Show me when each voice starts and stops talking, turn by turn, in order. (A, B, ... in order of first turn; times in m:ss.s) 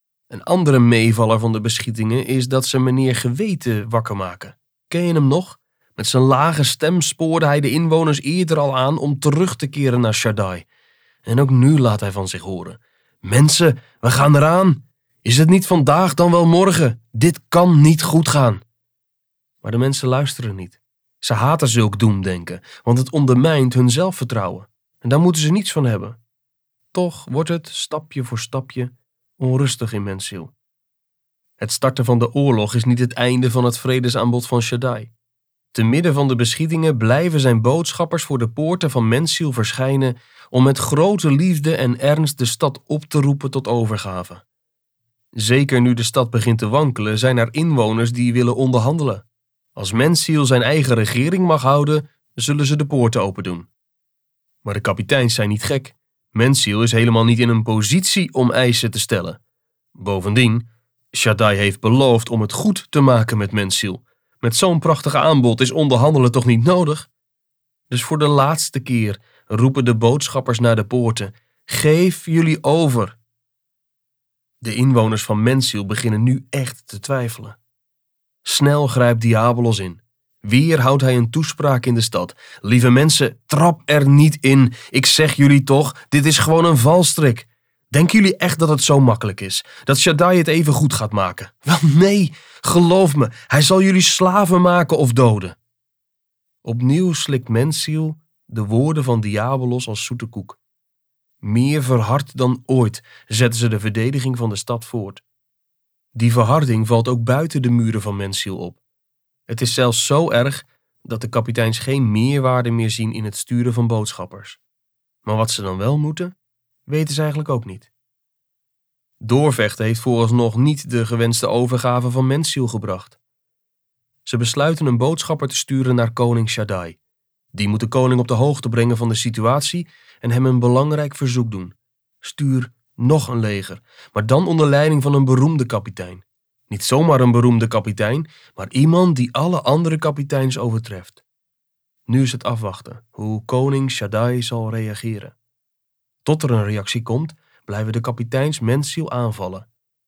0:00.3-0:10.7 A
0:11.2-0:18.6 A
0:19.6-0:26.2 A
0:26.9-0:30.5 A
0:31.6-0:35.1 A
0:35.7-0:44.4 A
0:45.4-0:49.2 A
0:49.8-0:53.7 A
0:54.6-0:59.4 A
1:00.0-1:07.1 A
1:07.9-1:13.2 A
1:14.6-1:17.6 A
1:18.4-1:35.6 A
1:36.6-1:40.6 A
1:41.4-1:45.2 A
1:46.2-1:48.8 A
1:49.5-1:54.6 A
1:55.2-1:56.3 A
1:56.9-1:57.9 A
1:59.2-2:03.2 A
2:04.2-2:07.0 A
2:07.5-2:21.2 A
2:22.1-2:25.4 A
2:26.2-2:29.7 A